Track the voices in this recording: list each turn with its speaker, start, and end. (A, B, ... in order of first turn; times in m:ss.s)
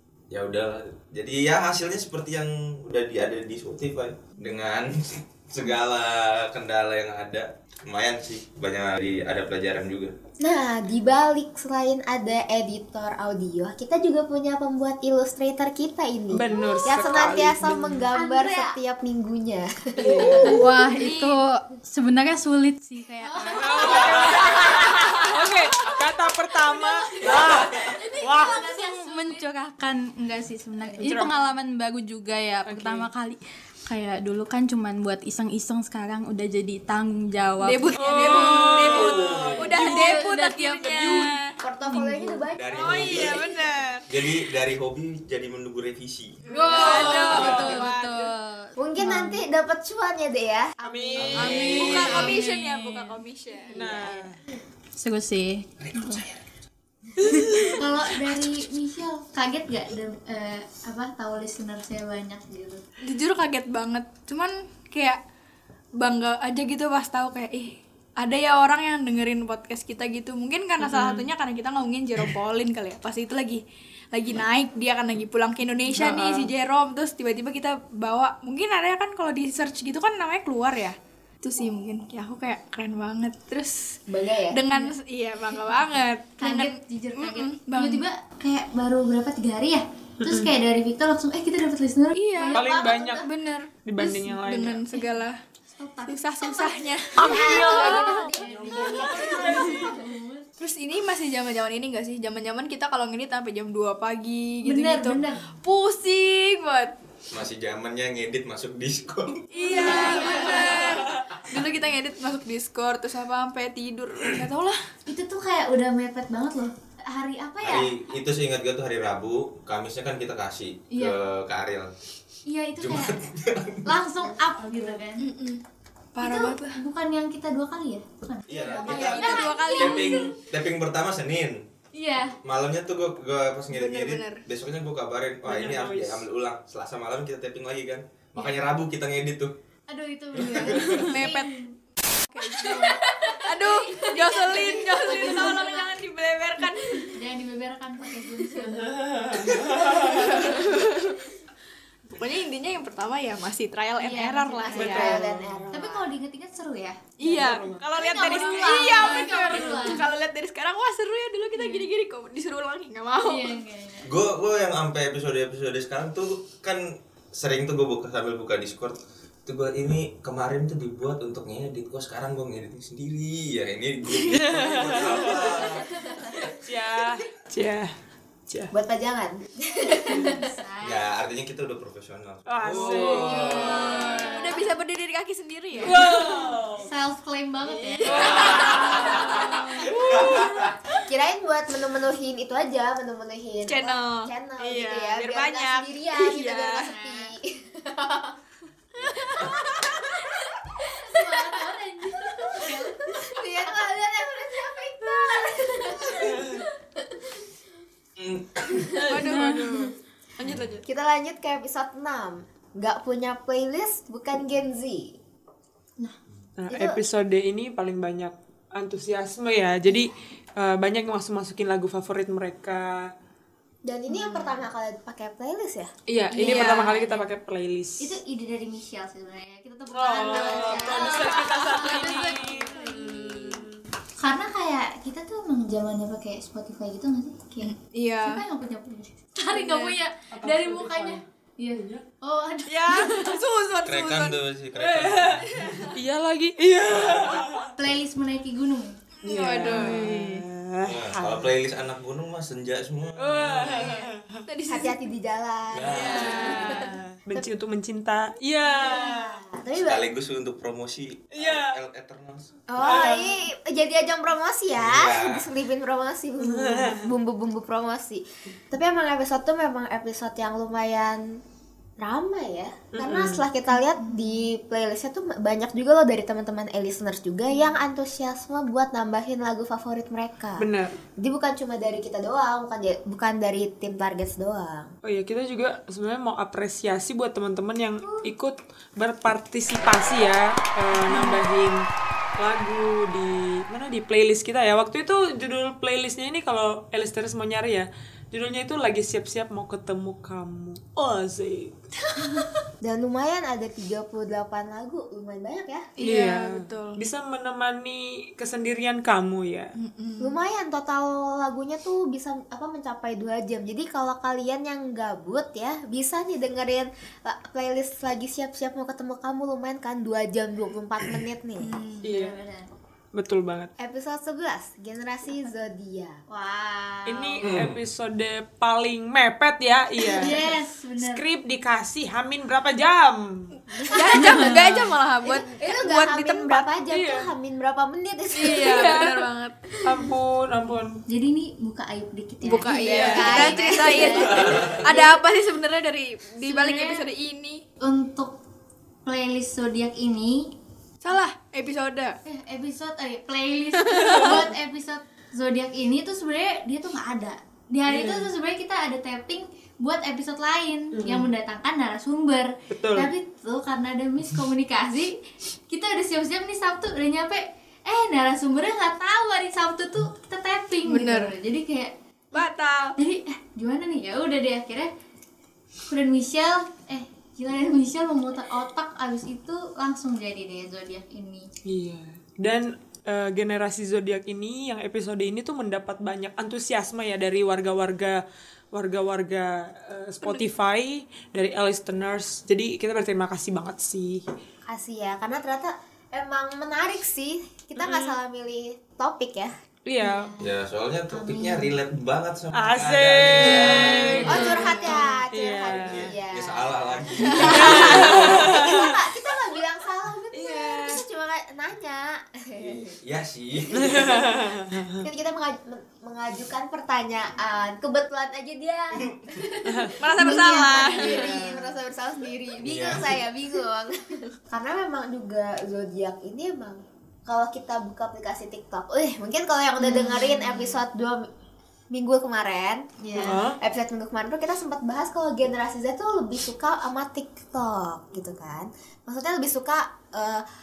0:00.3-0:10.2 A
0:10.4-0:20.6 B
0:16.3-0:18.1 C
0:18.1-0:18.8 D
0:20.0-0:20.6 C
0:20.6-0:24.2 E
0:20.7-0:21.4 F
0:23.2-0:24.2 D
0:23.4-0:25.1 F
0:23.5-0:28.6 C
0:27.3-0:29.4 F
0:28.4-0:41.3 E
0:28.4-0:29.4 D
0:31.0-0:31.3 C
0:32.7-0:33.1 C
0:37.6-0:41.6 F
0:38.0-0:40.0 C
0:38.9-0:39.7 A
0:41.6-0:43.4 B
0:41.9-0:42.3 E
0:42.6-0:43.4 A
0:42.7-0:44.1 F
0:44.1-0:46.4 A
0:46.5-0:48.3 F
0:46.5-0:49.4 E
0:46.9-0:47.2 D
0:47.2-0:47.8 C
0:48.8-0:51.3 B
0:50.8-0:52.4 C
0:51.2-0:52.2 A
0:51.4-0:54.3 F
0:51.4-0:53.2 E
0:53.7-0:54.4 C
0:55.0-0:56.2 E
0:55.8-0:56.4 A
0:57.2-0:57.8 C
0:57.7-1:02.8 D
1:03.0-1:05.2 F
1:06.0-1:13.6 F
1:10.8-1:11.3 C
1:14.1-1:24.0 F
1:15.9-1:16.5 C
1:24.1-1:24.6 B
1:24.5-1:28.0 F
1:26.4-1:33.3 D
1:30.2-1:30.5 C
1:32.1-1:32.7 F
1:32.5-1:33.2 C
1:33.2-1:35.4 F
1:33.8-1:34.9 C
1:35.7-1:40.5 D
1:36.1-1:38.3 F
1:37.2-1:40.0 B
1:37.2-1:37.6 C
1:38.4-1:40.0 C
1:40.6-1:47.0 F
1:44.6-1:45.5 D
1:47.3-1:49.5 A
1:49.5-1:54.8 F
1:49.6-1:51.0 D
1:55.1-1:58.0 D
1:57.6-2:01.9 A
2:00.9-2:01.2 D
2:02.5-2:03.2 D
2:02.8-2:03.9 A
2:03.8-2:05.3 D
2:05.2-2:05.6 F
2:06.2-2:06.8 F
2:06.2-2:10.3 D
2:08.5-2:11.6 A
2:08.8-2:10.3 F
2:11.9-2:12.4 D
2:12.4-2:19.5 A
2:13.7-2:14.4 F
2:15.4-2:16.2 C
2:19.9-2:21.7 D
2:20.3-2:21.1 A
2:20.7-2:21.6 F
2:22.3-2:27.2 F
2:22.5-2:25.9 D
2:26.6-2:29.3 D
2:28.6-2:30.4 C
2:29.8-2:31.2 F
2:30.2-2:30.7 D
2:32.1-2:35.2 F
2:34.0-2:35.2 D
2:34.6-2:36.0 B
2:34.8-2:35.7 C
2:35.7-2:37.1 D
2:37.2-2:43.6 F
2:37.2-2:37.9 C
2:37.9-2:40.1 D
2:41.6-2:41.9 D
2:43.2-2:44.2 D
2:44.0-2:56.5 A
2:54.3-2:55.6 C
2:56.6-2:57.9 C
2:58.7-3:00.6 B
3:00.0-3:01.1 D
3:00.8-3:04.1 A
3:02.5-3:03.7 C
3:03.3-3:04.6 D
3:03.4-3:06.6 F
3:03.6-3:03.9 B
3:05.8-3:06.9 C
3:06.0-3:10.4 D
3:07.6-3:10.7 F
3:08.1-3:08.4 C
3:10.0-3:10.6 A
3:11.1-3:18.4 B
3:13.6-3:16.9 F
3:16.9-3:17.3 D
3:19.2-3:19.6 F
3:21.0-3:23.3 D
3:22.6-3:26.5 B
3:25.9-3:26.3 D
3:26.3-3:26.6 C
3:28.2-3:29.1 A
3:29.0-3:30.8 F
3:29.3-3:29.7 E
3:30.8-3:35.2 B
3:36.6-3:43.1 C
3:36.7-3:37.0 B
3:43.8-3:45.9 B
3:46.1-3:48.2 C
3:46.3-3:47.0 F
3:46.3-3:47.2 D
3:48.0-3:53.3 D
3:49.9-3:53.8 C
3:50.3-3:51.2 B
3:50.6-3:53.5 F
3:54.2-4:03.4 D
3:57.6-3:58.4 F
3:59.5-4:00.0 F
4:00.3-4:01.2 C
4:01.8-4:02.0 C
4:02.7-4:04.4 F
4:03.8-4:05.9 A
4:04.8-4:07.7 C
4:07.8-4:09.0 D
4:09.2-4:10.2 F
4:09.2-4:11.5 C
4:10.8-4:14.0 A
4:13.2-4:14.4 C
4:13.5-4:15.0 F
4:14.7-4:16.8 B
4:15.7-4:16.8 A
4:16.0-4:17.0 F
4:16.2-4:19.3 C
4:18.6-4:20.1 B
4:19.8-4:22.5 A
4:21.3-4:21.8 C
4:22.7-4:31.4 B
4:22.8-4:23.4 C
4:24.8-4:25.5 A
4:26.4-4:27.1 C
4:32.0-4:45.0 B
4:32.9-4:33.5 C
4:34.0-4:34.3 D
4:40.6-4:41.0 C
4:45.0-5:01.8 C
5:02.8-5:05.9 B
5:06.0-5:07.0 F
5:06.0-5:09.7 C
5:09.8-5:10.4 F
5:10.2-5:21.7 B
5:21.6-5:22.1 F
5:22.0-5:22.4 C
5:22.1-5:22.7 D
5:23.1-5:23.7 C
5:23.8-5:26.2 B
5:26.3-5:27.5 D
5:27.1-5:30.4 C
5:27.4-5:27.8 A
5:30.2-5:31.2 D
5:31.0-5:33.5 C
5:33.7-5:36.7 F
5:34.2-5:34.5 E
5:35.2-5:39.1 B
5:36.9-5:37.3 C
5:38.4-5:39.6 F
5:39.8-5:41.0 C
5:41.1-5:45.1 D
5:42.4-5:47.6 F
5:42.8-5:44.9 B
5:44.3-5:44.8 A
5:46.4-5:47.1 D
5:47.8-5:48.4 D
5:49.0-5:50.5 D
5:51.0-5:52.2 F
5:52.2-6:05.2 D
5:53.8-5:54.4 F
5:57.9-5:58.3 C
6:00.9-6:01.3 C
6:02.7-6:03.1 C
6:05.7-6:12.4 D
6:10.8-6:11.4 F
6:12.3-6:13.0 F
6:13.0-6:14.9 D
6:15.9-6:21.5 D
6:21.6-6:28.2 C
6:28.7-6:34.3 C
6:34.7-6:39.5 B
6:37.8-6:38.1 C
6:39.9-6:40.3 C
6:40.0-6:40.6 D
6:40.4-6:44.5 A
6:41.1-6:41.8 D
6:42.5-6:46.1 C
6:43.4-6:44.9 F
6:44.2-6:53.0 B
6:45.8-6:48.6 A
6:47.3-6:48.9 C
6:50.4-6:51.0 C
6:52.6-6:54.2 A
6:53.7-6:55.0 C
6:53.7-7:11.3 B
6:59.6-7:00.0 C
7:00.0-7:01.5 F
7:00.8-7:01.5 D
7:02.6-7:03.2 A
7:11.9-7:20.4 B
7:13.0-7:13.4 D
7:13.2-7:13.6 C